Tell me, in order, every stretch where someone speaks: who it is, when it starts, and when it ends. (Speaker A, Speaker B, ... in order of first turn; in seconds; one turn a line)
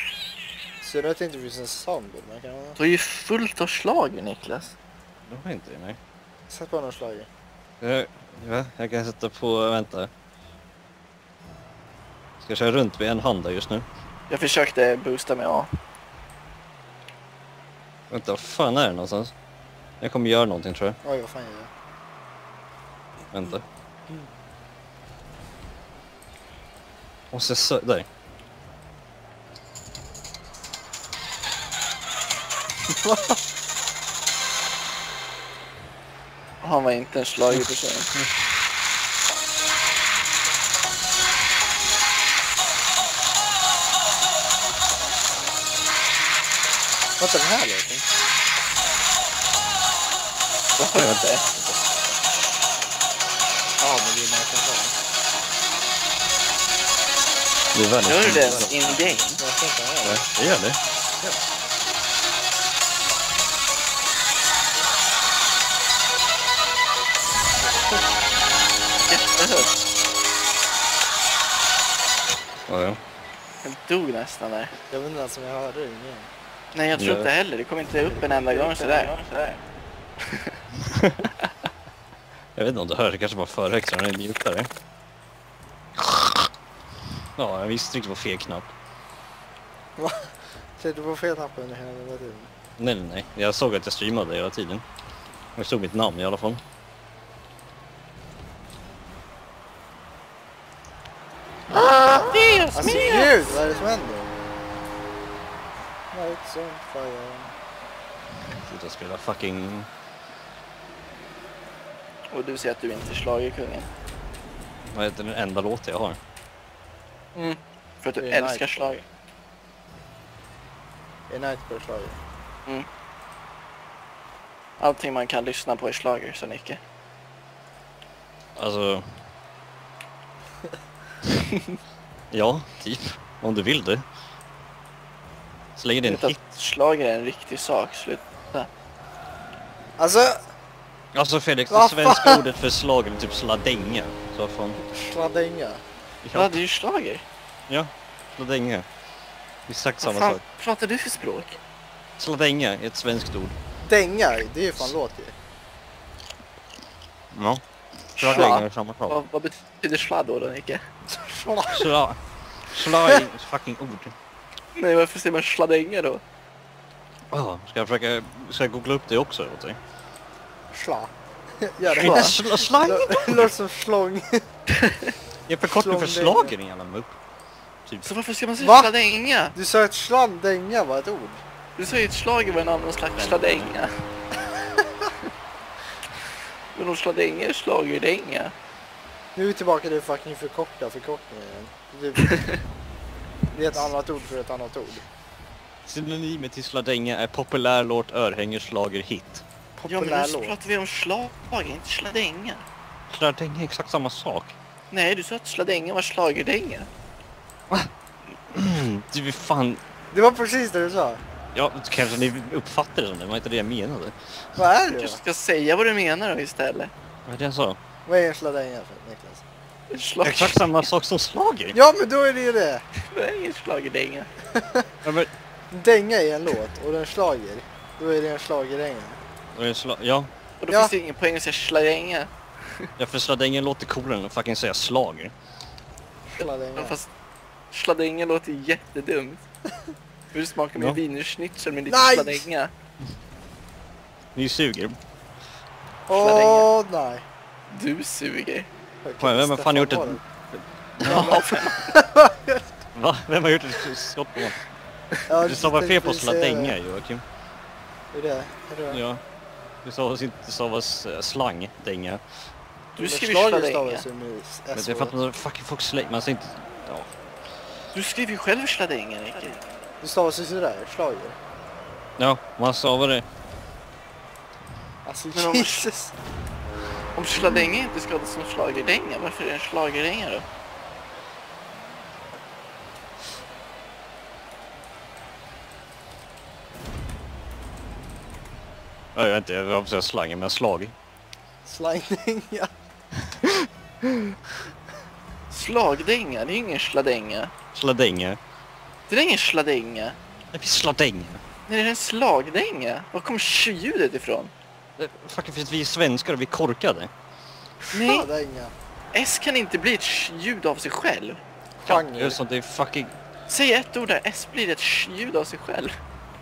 Speaker A: 0.8-2.8
Speaker B: 2.8-4.7
Speaker C: 5.3-6.0
Speaker A: 6.5-7.3
Speaker C: 7.8-10.1
Speaker C: 12.4-13.8
Speaker B: 14.3-15.7
Speaker C: 18.1-19.3
Speaker C: 20.0-21.0
Speaker A: 21.0-21.7
Speaker C: 23.3-23.6
Speaker C: 27.3-28.1
Speaker A: 33.0-33.4
Speaker B: 36.6-38.1
Speaker A: 47.2-48.0
Speaker B: 50.8-51.4
Speaker C: 50.9-51.8
Speaker A: 53.8-54.9
Speaker C: 57.7-59.4
Speaker B: 58.0-59.4
Speaker A: 59.4-60.3
Speaker C: 60.0-61.3
Speaker A: 67.6-68.1
Speaker B: 69.1-69.7
Speaker C: 72.7-73.0
Speaker B: 73.6-74.7
Speaker A: 74.9-76.3
Speaker B: 76.7-79.6
Speaker C: 77.0-77.3
Speaker A: 78.0-79.1
Speaker B: 80.2-80.5
Speaker C: 82.5-84.7
Speaker C: 86.0-86.5
Speaker C: 87.4-88.7
Speaker A: 90.0-92.5
Speaker C: 92.8-94.8
Speaker C: 95.5-96.6
Speaker B: 101.7-103.5
Speaker A: 102.7-104.3
Speaker A: 106.1-107.5
Speaker C: 108.6-109.9
Speaker B: 112.3-113.9
Speaker C: 114.8-116.2
Speaker B: 117.3-119.0
Speaker A: 118.2-118.9
Speaker A: 121.3-122.2
Speaker B: 124.8-126.8
Speaker C: 128.6-129.2
Speaker C: 132.3-134.0
Speaker C: 135.8-136.4
Speaker B: 136.0-138.7
Speaker A: 140.0-140.5
Speaker C: 141.1-144.8
Speaker A: 141.7-142.4
Speaker A: 144.8-145.8
Speaker C: 146.2-146.6
Speaker B: 146.3-147.2
Speaker C: 147.7-148.8
Speaker C: 149.7-150.4
Speaker B: 150.0-151.6
Speaker C: 152.2-153.6
Speaker A: 153.8-155.3
Speaker C: 157.3-157.6
Speaker B: 158.2-160.8
Speaker C: 158.2-159.2
Speaker A: 158.3-158.6
Speaker A: 161.1-161.9
Speaker C: 161.7-164.1
Speaker B: 164.8-166.2
Speaker C: 167.3-169.8
Speaker A: 170.7-174.4
Speaker C: 171.8-173.5
Speaker B: 172.0-172.3
Speaker B: 174.8-175.1
Speaker C: 175.4-177.2
Speaker A: 175.6-176.5
Speaker C: 177.8-178.1
Speaker B: 178.0-179.5
Speaker A: 178.6-178.9
Speaker A: 179.5-181.4
Speaker B: 181.8-183.9
Speaker C: 183.2-183.7
Speaker B: 186.7-188.5
Speaker A: 189.3-192.5
Speaker B: 192.2-192.6
Speaker A: 193.5-195.0
Speaker C: 195.8-199.4
Speaker A: 199.8-200.6
Speaker B: 199.9-202.6
Speaker C: 203.1-204.5
Speaker B: 204.9-206.9
Speaker C: 208.5-209.8
Speaker A: 210.1-211.2
Speaker C: 211.5-214.1
Speaker A: 214.6-215.2
Speaker B: 214.9-216.9
Speaker C: 217.2-217.8
Speaker A: 218.1-219.4
Speaker B: 219.9-220.6
Speaker C: 220.2-221.8
Speaker A: 221.7-222.8
Speaker B: 223.1-224.3
Speaker A: 224.6-224.8
Speaker C: 225.0-225.3
Speaker A: 225.7-229.2
Speaker C: 229.5-230.3
Speaker B: 230.6-232.9
Speaker A: 230.7-230.9
Speaker C: 233.0-235.3
Speaker A: 236.3-237.0
Speaker B: 236.4-237.1
Speaker B: 237.7-239.4
Speaker B: 240.3-242.7
Speaker C: 240.7-241.0
Speaker A: 241.9-242.4
Speaker C: 244.3-245.0
Speaker A: 246.1-247.2
Speaker B: 246.1-246.7
Speaker B: 247.7-248.7
Speaker A: 249.0-250.2
Speaker C: 249.2-251.4
Speaker B: 251.0-251.9
Speaker A: 251.0-252.6
Speaker C: 252.9-254.6
Speaker A: 255.3-256.8
Speaker C: 255.4-257.2
Speaker A: 258.1-259.0
Speaker C: 258.9-259.2
Speaker C: 259.8-262.2
Speaker B: 262.9-264.0
Speaker A: 262.9-265.1
Speaker C: 264.7-267.1
Speaker B: 267.9-269.6
Speaker A: 270.0-271.4
Speaker C: 272.2-273.2
Speaker A: 275.0-276.1
Speaker B: 275.3-275.9
Speaker B: 277.1-280.4
Speaker C: 289.1-290.9
Speaker A: 291.6-292.7
Speaker B: 295.5-297.5
Speaker C: 297.7-298.4
Speaker B: 299.1-300.2
Speaker C: 300.5-301.4
Speaker B: 301.7-304.5
Speaker C: 305.0-307.1
Speaker A: 307.9-308.7
Speaker B: 307.9-308.3
Speaker B: 309.1-311.4
Speaker A: 311.8-312.4
Speaker C: 311.8-313.1
Speaker B: 313.5-315.9